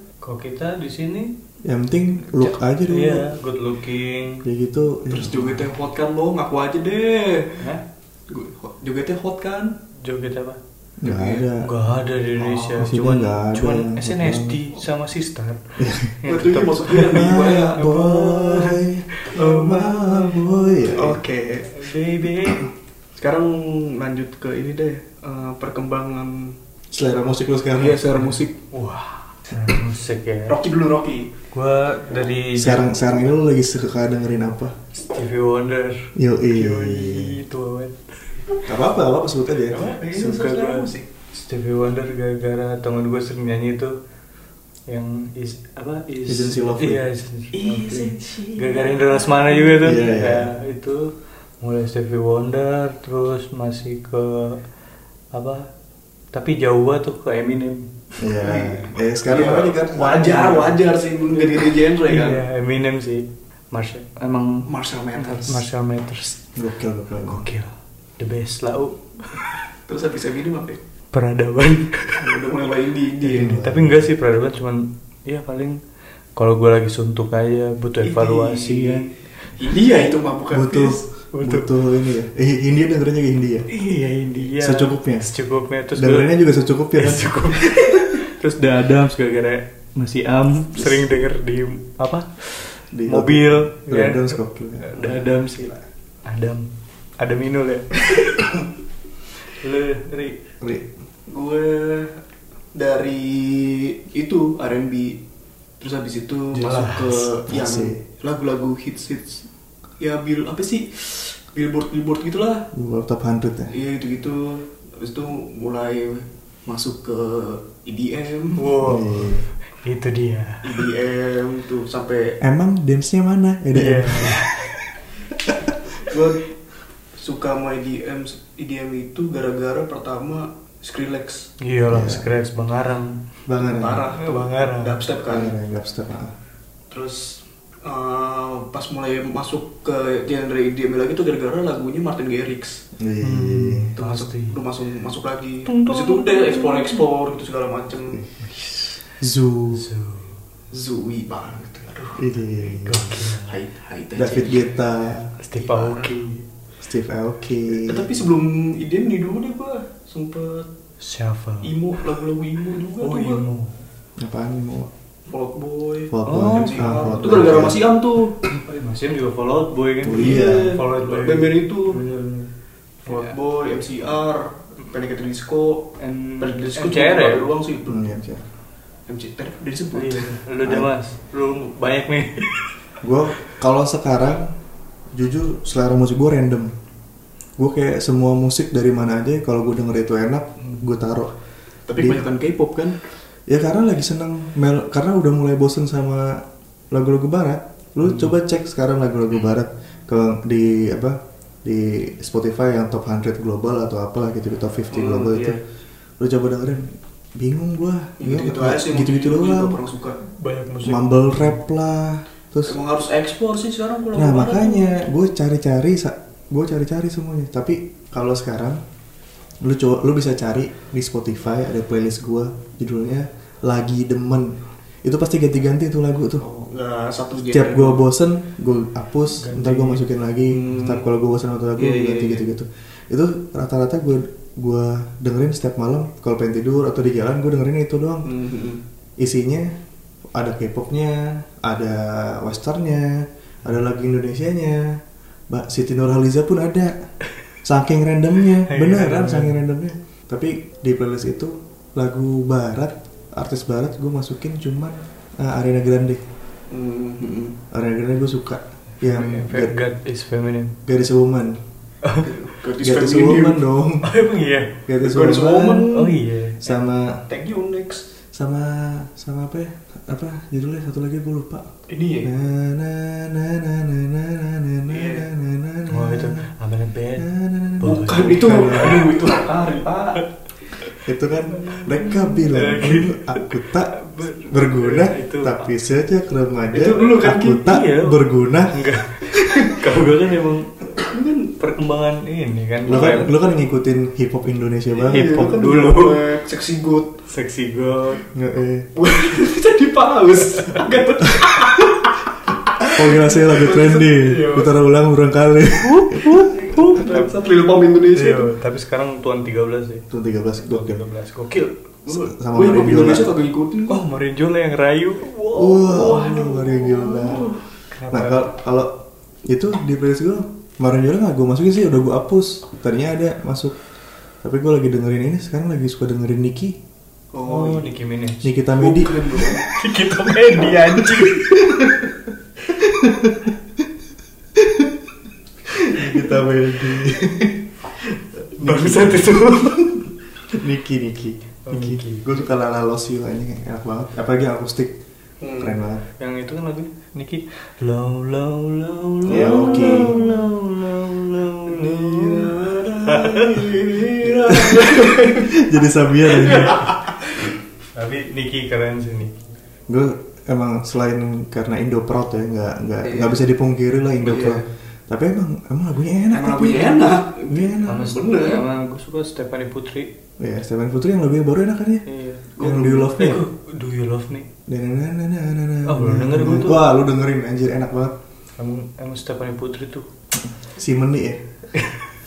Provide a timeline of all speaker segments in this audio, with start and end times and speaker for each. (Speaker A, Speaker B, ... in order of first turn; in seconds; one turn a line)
Speaker A: 0.2-1.3
Speaker B: 1.6-3.3
Speaker A: 2.9-4.4
Speaker B: 4.4-5.6
Speaker C: 5.0-7.7
Speaker A: 7.6-7.8
Speaker C: 8.3-9.8
Speaker A: 10.0-10.6
Speaker B: 11.0-11.7
Speaker C: 11.0-11.5
Speaker A: 11.6-21.0
Speaker C: 12.4-12.9
Speaker B: 12.8-14.6
Speaker B: 15.8-16.2
Speaker C: 16.2-17.9
Speaker B: 17.1-21.2
Speaker C: 19.4-19.8
Speaker C: 20.9-21.8
Speaker A: 21.7-22.7
Speaker C: 23.1-26.6
Speaker B: 26.9-28.0
Speaker C: 27.7-28.6
Speaker A: 28.7-30.6
Speaker C: 30.5-31.3
Speaker A: 31.5-33.2
Speaker B: 32.5-34.8
Speaker A: 35.0-38.4
Speaker B: 36.1-37.4
Speaker B: 38.6-39.9
Speaker C: 39.7-41.1
Speaker A: 39.8-44.0
Speaker A: 44.9-54.6
Speaker B: 46.3-47.0
Speaker C: 47.5-50.0
Speaker B: 49.8-50.5
Speaker A: 55.3-55.7
Speaker A: 56.3-57.9
Speaker B: 58.2-60.8
Speaker C: 58.4-62.4
Speaker A: 62.0-66.5
Speaker C: 64.7-65.6
Speaker B: 66.5-67.5
Speaker A: 67.1-69.6
Speaker C: 69.8-70.8
Speaker A: 71.1-72.5
Speaker C: 72.2-73.5
Speaker A: 73.2-75.8
Speaker B: 73.3-74.1
Speaker A: 76.3-79.1
Speaker C: 78.0-81.0
Speaker B: 80.5-83.7
Speaker A: 81.3-81.7
Speaker A: 83.7-86.3
Speaker B: 84.6-85.3
Speaker B: 86.0-87.8
Speaker A: 86.9-98.5
Speaker B: 92.9-95.2
Speaker A: 99.5-100.4
Speaker B: 100.6-100.9
Speaker C: 101.3-102.2
Speaker C: 102.7-105.2
Speaker C: 105.8-109.5
Speaker A: 106.5-107.3
Speaker B: 107.5-108.0
Speaker C: 110.0-112.7
Speaker B: 112.7-113.7
Speaker C: 113.7-118.7
Speaker A: 118.5-120.8
Speaker B: 118.8-119.5
Speaker C: 120.6-122.4
Speaker B: 122.4-124.5
Speaker A: 123.7-124.6
Speaker B: 125.3-125.8
Speaker C: 126.0-126.4
Speaker C: 127.2-131.5
Speaker A: 131.6-133.2
Speaker B: 131.9-132.2
Speaker B: 133.5-134.1
Speaker C: 133.6-135.5
Speaker A: 134.1-135.0
Speaker B: 135.2-136.3
Speaker C: 136.9-142.8
Speaker B: 143.0-143.9
Speaker A: 143.2-144.6
Speaker C: 144.0-148.2
Speaker A: 145.7-147.0
Speaker A: 148.4-149.0
Speaker B: 149.2-149.9
Speaker A: 149.7-150.4
Speaker C: 150.7-152.2
Speaker B: 152.2-153.2
Speaker A: 152.6-153.6
Speaker C: 153.4-154.8
Speaker B: 154.2-155.3
Speaker A: 155.4-156.4
Speaker C: 155.6-156.2
Speaker B: 156.8-158.1
Speaker C: 157.7-160.7
Speaker A: 161.0-161.8
Speaker C: 161.6-163.4
Speaker A: 163.0-163.7
Speaker B: 164.2-164.9
Speaker C: 165.3-168.4
Speaker B: 166.1-167.8
Speaker A: 166.2-167.2
Speaker A: 168.5-172.5
Speaker B: 170.0-170.8
Speaker C: 170.1-172.0
Speaker C: 173.1-178.1
Speaker A: 173.1-173.3
Speaker A: 176.0-177.5
Speaker B: 177.8-178.4
Speaker C: 179.1-180.4
Speaker A: 179.9-182.8
Speaker B: 180.6-180.9
Speaker B: 183.0-184.5
Speaker B: 185.1-186.7
Speaker B: 187.6-191.3
Speaker C: 191.9-193.0
Speaker B: 192.0-192.2
Speaker B: 193.5-205.6
Speaker C: 204.9-205.6
Speaker B: 206.2-209.8
Speaker C: 208.2-210.2
Speaker A: 210.2-211.5
Speaker B: 210.8-212.8
Speaker C: 212.6-214.9
Speaker B: 214.1-218.8
Speaker B: 219.6-226.5
Speaker C: 226.4-228.1
Speaker B: 227.5-238.3
Speaker A: 229.4-230.0
Speaker C: 230.5-231.0
Speaker C: 231.8-232.5
Speaker C: 238.2-238.8
Speaker B: 239.2-239.7
Speaker B: 240.3-244.8
Speaker B: 245.5-246.9
Speaker B: 247.6-256.2
Speaker A: 248.7-249.6
Speaker C: 256.7-257.6
Speaker B: 257.7-259.8
Speaker A: 259.0-260.8
Speaker B: 260.8-261.6
Speaker C: 262.2-263.6
Speaker B: 262.8-264.1
Speaker A: 264.0-264.7
Speaker B: 264.9-265.9
Speaker C: 265.0-266.1
Speaker A: 265.9-266.6
Speaker B: 266.6-267.2
Speaker C: 267.3-268.1
Speaker B: 268.3-271.7
Speaker C: 271.9-272.3
Speaker B: 272.2-276.5
Speaker C: 274.9-275.3
Speaker A: 275.9-277.3
Speaker B: 277.2-279.1
Speaker A: 277.8-279.3
Speaker C: 277.8-280.2
Speaker B: 281.0-288.9
Speaker A: 281.5-285.7
Speaker C: 286.7-287.8
Speaker A: 287.5-290.9
Speaker C: 291.0-291.5
Speaker A: 291.6-293.3
Speaker B: 292.9-295.6
Speaker C: 292.9-293.3
Speaker C: 295.0-297.2
Speaker A: 295.1-296.2
Speaker A: 297.3-298.2
Speaker B: 298.3-298.9
Speaker C: 299.0-304.7
Speaker B: 302.8-306.5
Speaker A: 305.8-307.3
Speaker C: 306.5-308.5
Speaker A: 308.1-310.1
Speaker B: 310.1-311.0
Speaker A: 310.6-311.7
Speaker C: 311.5-314.0
Speaker B: 312.1-313.3
Speaker A: 313.9-316.2
Speaker B: 315.5-317.5
Speaker C: 315.8-317.6
Speaker A: 317.9-318.5
Speaker B: 318.1-323.8
Speaker B: 324.4-326.8
Speaker C: 327.3-327.9
Speaker A: 327.4-328.5
Speaker B: 328.4-329.2
Speaker C: 328.8-329.7
Speaker A: 329.4-332.0
Speaker B: 331.2-331.9
Speaker B: 332.7-333.8
Speaker B: 334.5-335.0
Speaker B: 335.7-345.0
Speaker A: 338.6-339.9
Speaker A: 341.7-342.4
Speaker C: 345.4-345.8
Speaker B: 345.6-346.0
Speaker A: 346.2-353.8
Speaker B: 349.2-350.2
Speaker C: 349.3-350.4
Speaker C: 351.6-355.6
Speaker B: 354.4-356.9
Speaker C: 356.4-356.9
Speaker A: 356.5-357.0
Speaker A: 357.9-359.4
Speaker B: 359.9-368.1
Speaker C: 363.0-363.4
Speaker C: 364.2-364.6
Speaker C: 366.3-368.6
Speaker A: 367.8-370.1
Speaker B: 370.4-372.1
Speaker A: 372.1-372.5
Speaker C: 372.6-373.2
Speaker B: 372.6-373.4
Speaker A: 373.0-374.5
Speaker B: 374.7-378.2
Speaker A: 375.8-376.8
Speaker A: 378.6-380.1
Speaker B: 380.3-381.4
Speaker A: 381.7-382.1